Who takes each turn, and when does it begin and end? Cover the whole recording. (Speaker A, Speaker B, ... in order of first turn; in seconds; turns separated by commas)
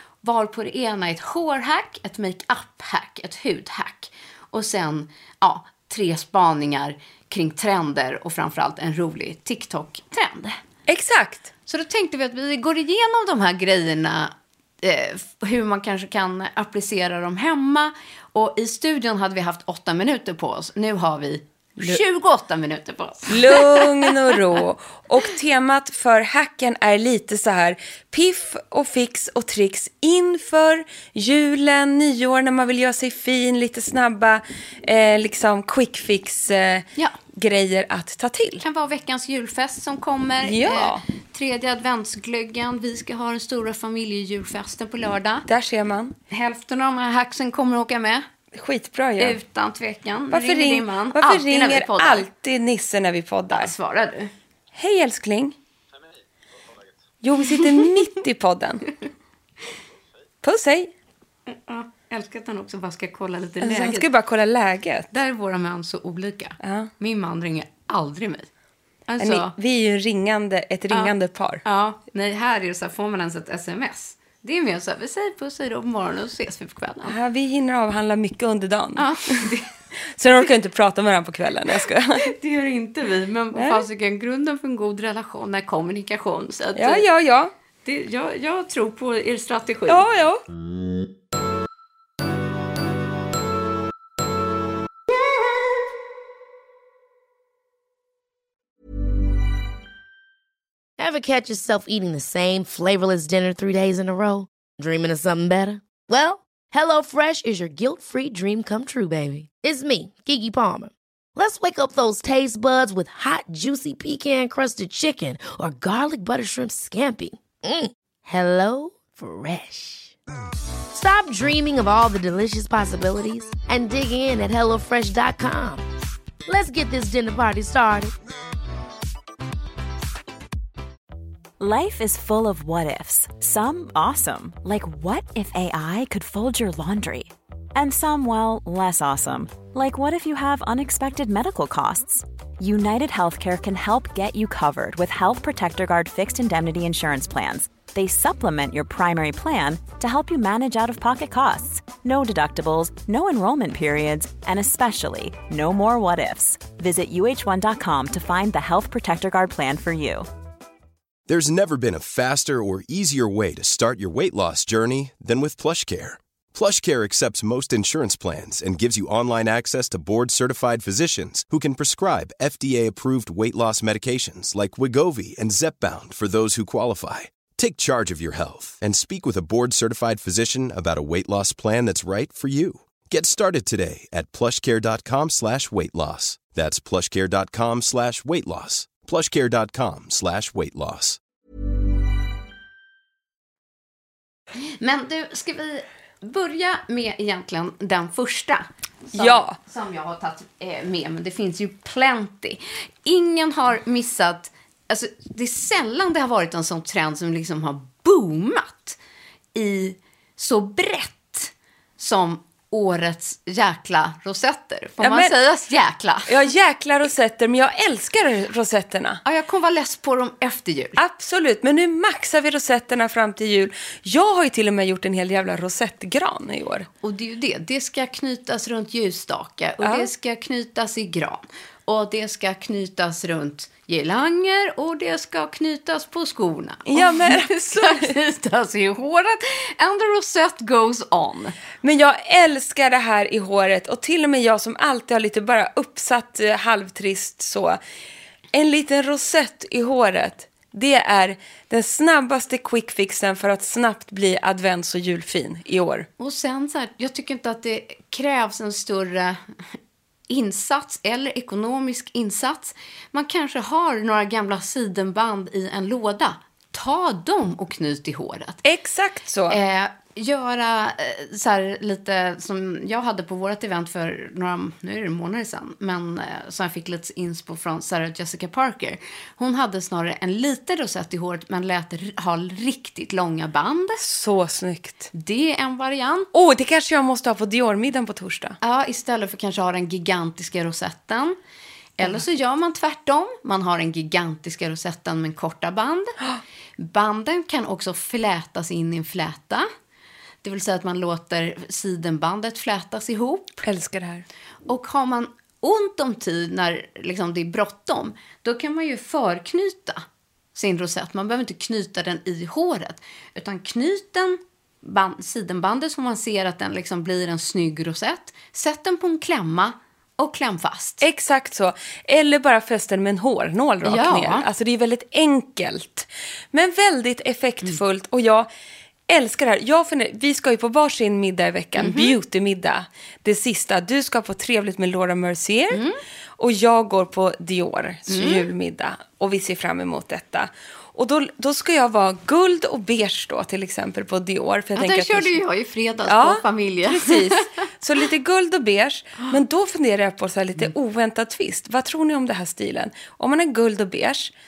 Speaker A: 0.2-10.6, Speaker B: 10.9-11.5, Speaker A: 11.7-24.3, Speaker B: 23.3-38.6, Speaker A: 38.6-45.5, Speaker B: 40.4-41.0, Speaker B: 45.5-46.1, Speaker A: 46.3-48.3, Speaker B: 48.5-49.4, Speaker A: 49.2-52.3, Speaker B: 50.3-53.7, Speaker A: 53.5-54.3, Speaker B: 54.7-55.5, Speaker B: 57.2-58.9, Speaker A: 57.5-57.9, Speaker B: 60.4-60.9, Speaker A: 61.5-64.1, Speaker B: 63.6-65.1, Speaker A: 65.1-68.5, Speaker B: 66.6-66.9, Speaker A: 69.1-69.5, Speaker B: 69.2-71.6, Speaker A: 70.9-77.1, Speaker B: 77.0-79.5, Speaker A: 79.0-79.7, Speaker B: 80.2-82.3, Speaker A: 82.2-87.0, Speaker B: 83.5-83.8, Speaker B: 86.8-87.5, Speaker A: 87.8-90.0, Speaker B: 89.9-90.4, Speaker C: 101.0-120.1, Speaker C: 120.9-125.8, Speaker C: 126.5-128.1, Speaker D: 131.6-160.3, Speaker E: 161.3-191.2, Speaker A: 194.6-209.0, Speaker B: 199.1-199.6, Speaker A: 209.5-216.3, Speaker B: 215.0-215.3, Speaker B: 216.3-219.2, Speaker A: 219.2-221.0, Speaker B: 221.0-226.9, Speaker A: 227.0-241.6, Speaker B: 229.8-230.1, Speaker B: 236.9-238.2, Speaker B: 241.8-247.8, Speaker B: 248.5-256.1, Speaker A: 256.2-259.4, Speaker A: 260.3-268.6, Speaker B: 268.6-269.6, Speaker A: 269.5-284.0, Speaker B: 284.0-285.1, Speaker A: 285.1-286.3, Speaker B: 286.3-288.6, Speaker A: 288.6-291.4, Speaker A: 292.0-296.2, Speaker A: 296.8-299.7, Speaker A: 300.4-303.6, Speaker B: 303.6-304.2, Speaker A: 304.7-310.0, Speaker A: 310.5-321.0, Speaker B: 321.0-328.5, Speaker A: 323.8-324.4, Speaker B: 329.1-335.8, Speaker A: 331.8-332.2, Speaker A: 335.7-336.0, Speaker B: 336.4-345.4, Speaker A: 338.1-338.5, Speaker A: 344.8-347.4, Speaker B: 346.1-354.3